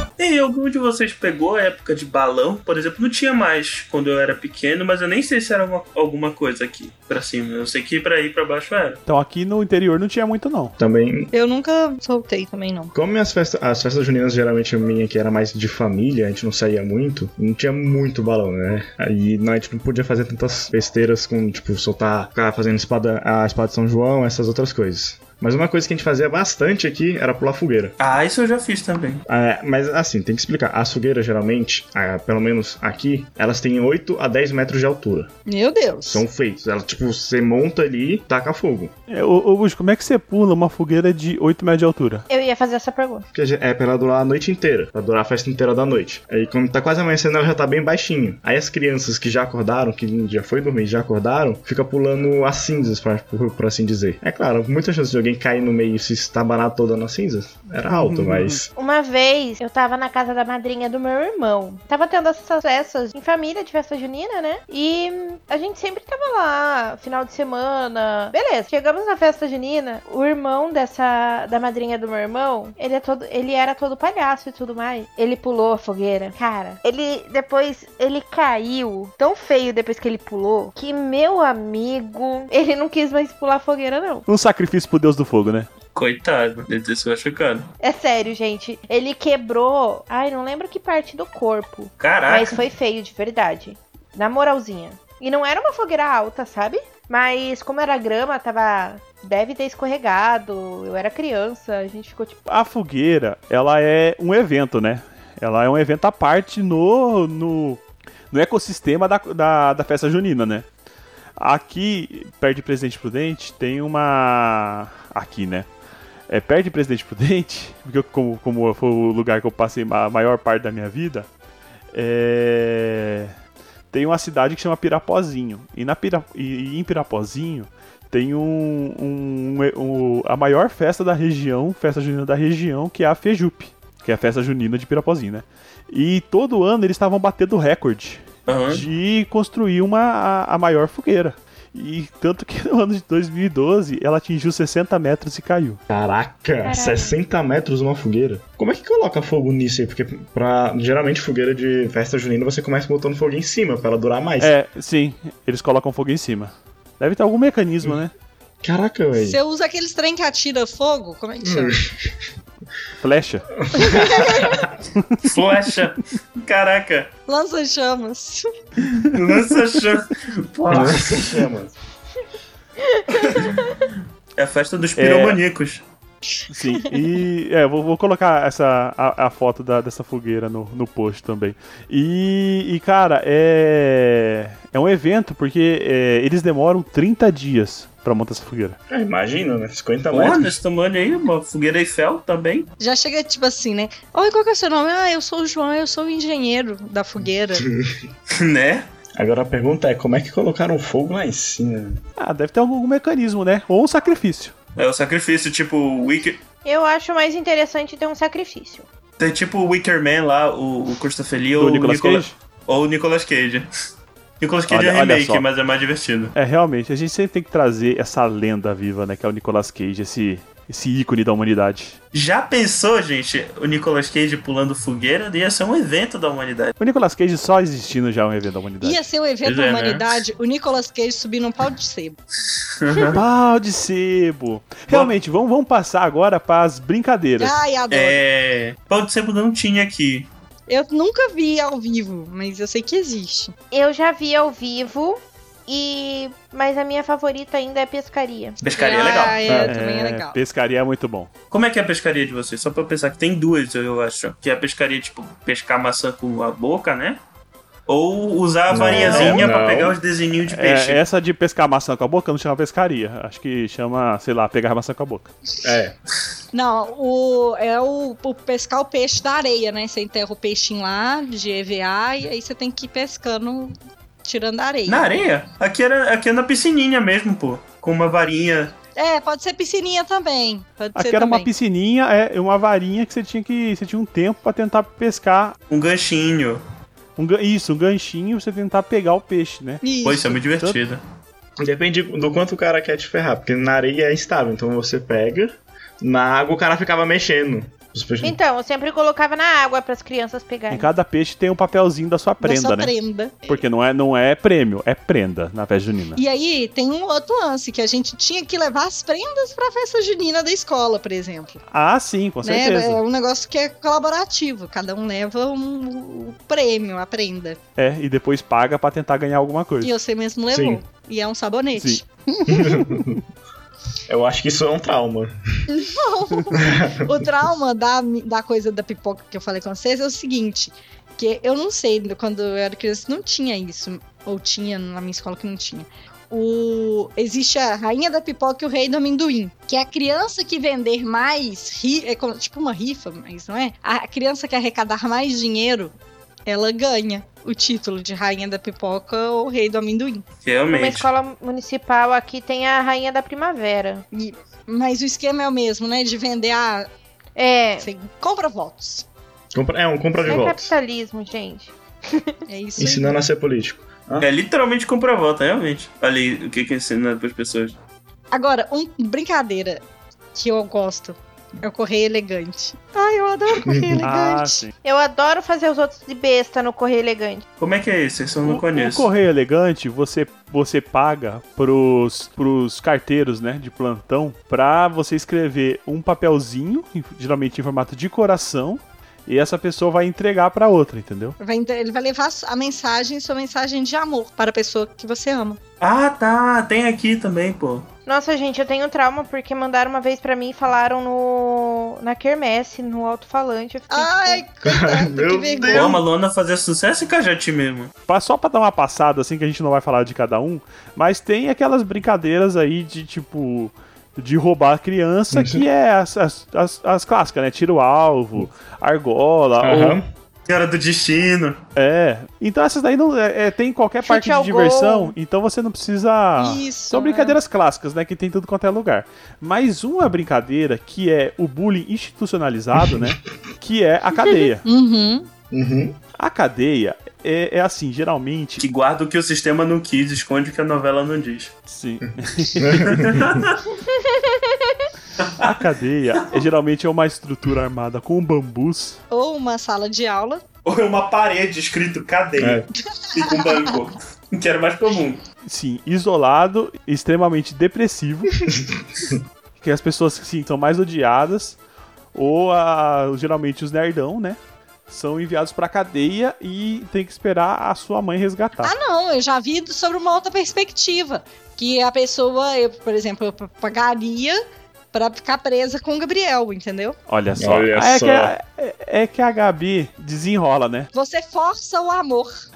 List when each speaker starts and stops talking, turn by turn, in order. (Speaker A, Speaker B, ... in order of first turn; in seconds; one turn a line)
Speaker A: 0.2-9.0
Speaker B: 9.1-10.8
Speaker C: 10.8-11.3
Speaker D: 11.3-12.9
Speaker C: 12.9-27.9
Speaker A: 28.0-29.2
Speaker C: 29.3-35.3
Speaker D: 35.5-36.2
Speaker C: 36.1-38.9
Speaker B: 39.1-42.2
Speaker E: 42.3-43.3
Speaker C: 43.3-58.7
Speaker B: 57.9-58.6
Speaker E: 58.8-84.3
Speaker B: 84.3-85.7
Speaker A: 86.0-87.7
Speaker E: 87.8-102.4
Speaker A: 92.0-92.6
Speaker B: 102.5-110.7
Speaker B: 111.4-115.7
Speaker B: 116.3-121.3
Speaker B: 121.9-123.3
Speaker B: 123.9-145.8
Speaker A: 138.5-138.9
Speaker C: 145.9-154.5
Speaker E: 146.6-147.2
Speaker B: 154.4-158.1
Speaker C: 158.6-159.4
Speaker D: 159.2-161.8
Speaker C: 161.4-162.1
Speaker B: 163.0-164.3
Speaker C: 163.6-164.7
Speaker D: 163.8-164.6
Speaker A: 165.2-167.1
Speaker D: 167.3-168.5
Speaker A: 169.0-171.5
Speaker C: 170.7-171.8
Speaker E: 172.9-173.7
Speaker A: 173.2-175.8
Speaker B: 175.0-175.4
Speaker D: 176.4-177.0
Speaker B: 176.5-188.8
Speaker C: 188.9-190.6
Speaker A: 190.1-192.7
Speaker D: 192.8-197.7
Speaker C: 197.2-198.0
Speaker A: 198.3-198.9
Speaker C: 199.2-202.0
Speaker B: 202.2-204.5
Speaker A: 204.8-206.4
Speaker E: 206.7-208.9
Speaker A: 209.2-213.7
Speaker B: 211.6-212.3
Speaker A: 214.4-216.3
Speaker B: 214.7-215.4
Speaker B: 216.3-222.0
Speaker A: 222.1-226.7
Speaker B: 226.8-229.0
Speaker D: 228.8-232.2
Speaker A: 229.4-230.1
Speaker A: 232.8-233.2
Speaker B: 233.1-237.6
Speaker A: 234.9-235.1
Speaker D: 237.4-238.2
Speaker A: 237.9-240.3
Speaker D: 240.7-243.5
Speaker E: 243.7-248.6
Speaker A: 248.6-249.5
Speaker D: 248.8-250.4
Speaker C: 249.5-249.7
Speaker B: 249.6-251.3
Speaker A: 251.5-257.2
Speaker A: 257.9-261.0
Speaker C: 258.7-260.0
Speaker D: 258.9-259.3
Speaker B: 259.1-259.5
Speaker B: 260.5-265.3
Speaker C: 265.6-265.9
Speaker D: 266.5-275.1
Speaker A: 274.9-278.7
Speaker D: 279.0-281.5
Speaker B: 280.9-285.6
Speaker A: 285.7-286.6
Speaker B: 287.2-289.8
Speaker D: 289.8-290.4
Speaker A: 290.0-291.0
Speaker C: 291.6-298.4
Speaker E: 298.2-300.9
Speaker B: 300.7-302.9
Speaker D: 302.4-303.6
Speaker B: 303.5-306.2
Speaker D: 306.2-311.6
Speaker B: 311.7-313.0
Speaker D: 312.4-317.6
Speaker B: 317.8-319.9
Speaker D: 319.8-322.4
Speaker C: 320.5-320.8
Speaker B: 321.8-323.2
Speaker C: 322.5-323.2
Speaker C: 324.1-325.8
Speaker D: 325.7-345.9
Speaker C: 326.5-327.2
Speaker D: 346.5-350.3
Speaker A: 350.4-351.1
Speaker E: 350.7-354.1
Speaker D: 354.1-356.9
Speaker E: 357.4-357.9
Speaker D: 357.8-359.1
Speaker C: 359.5-360.7
Speaker E: 360.3-362.4
Speaker D: 362.5-363.2
Speaker C: 362.8-364.3
Speaker A: 364.2-367.8
Speaker D: 368.3-369.8
Speaker D: 370.3-374.6
Speaker C: 373.6-374.0
Speaker B: 374.0-374.7
Speaker E: 374.8-377.4
Speaker A: 377.6-379.1
Speaker B: 378.4-391.4
Speaker D: 391.4-395.6
Speaker A: 395.8-397.9
Speaker E: 398.1-404.4
Speaker D: 403.9-406.0
Speaker C: 404.6-406.0
Speaker A: 405.7-407.9
Speaker B: 408.1-420.0
Speaker C: 415.3-415.6
Speaker C: 419.6-420.0
Speaker A: 420.5-421.6
Speaker B: 421.8-434.7
Speaker E: 424.0-425.1
Speaker D: 426.4-427.4
Speaker C: 432.8-433.1
Speaker D: 434.7-435.3
Speaker C: 435.5-436.0
Speaker B: 436.2-438.6
Speaker A: 438.6-441.6
Speaker B: 441.7-443.0
Speaker C: 442.6-443.4
Speaker A: 442.8-443.6
Speaker E: 443.8-444.9
Speaker A: 445.2-445.5
Speaker B: 445.4-449.0
Speaker D: 449.1-450.4
Speaker A: 450.6-455.2
Speaker C: 452.4-452.7
Speaker D: 453.0-453.5
Speaker B: 455.5-458.4
Speaker C: 458.5-459.2
Speaker B: 459.6-461.6
Speaker B: 462.1-468.7
Speaker D: 468.6-474.4
Speaker D: 474.9-477.0
Speaker B: 477.1-480.9
Speaker C: 477.4-478.3
Speaker D: 480.9-482.4